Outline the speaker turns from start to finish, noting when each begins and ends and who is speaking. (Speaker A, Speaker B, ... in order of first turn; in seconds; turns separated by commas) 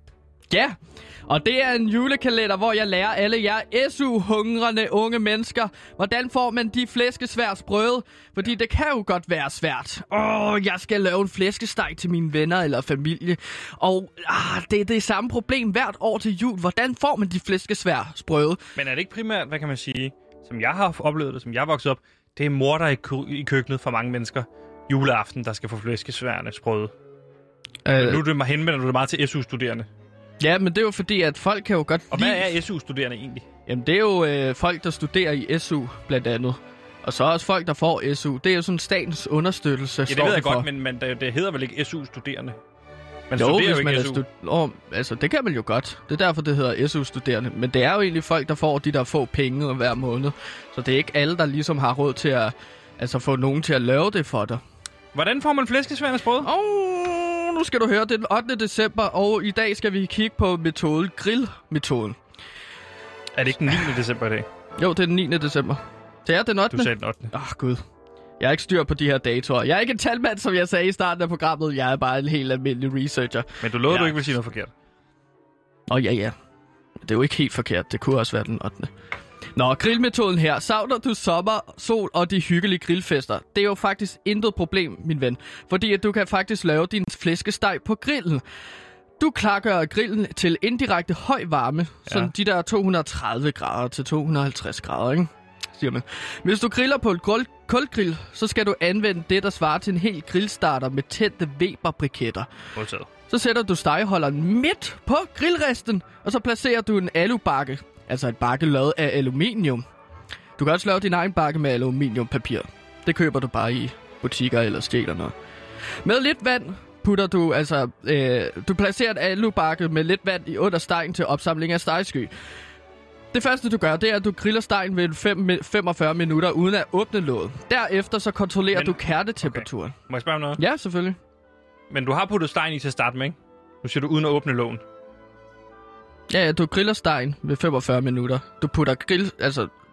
Speaker A: 0.5-18.6, Speaker B: 18.8-26.9, Speaker A: 27.9-28.2, Speaker B: 28.0-29.9, Speaker A: 30.4-32.6, Speaker B: 32.1-33.5, Speaker A: 33.7-40.7, Speaker B: 40.1-42.6, Speaker B: 43.3-44.2, Speaker A: 43.4-54.6, Speaker B: 55.1-56.5, Speaker A: 56.4-62.2, Speaker B: 63.4-64.5, Speaker A: 64.8-67.8, Speaker B: 66.7-67.3, Speaker A: 68.4-74.2, Speaker B: 73.6-74.7, Speaker A: 75.9-76.3, Speaker A: 77.0-78.9, Speaker A: 79.6-88.4, Speaker A: 89.2-102.5, Speaker B: 102.8-103.1, Speaker A: 103.3-109.8, Speaker A: 110.6-115.3, Speaker A: 116.0-122.3, Speaker A: 123.3-130.0, Speaker B: 128.7-130.6, Speaker A: 130.6-131.2, Speaker B: 131.9-134.8, Speaker A: 136.3-139.7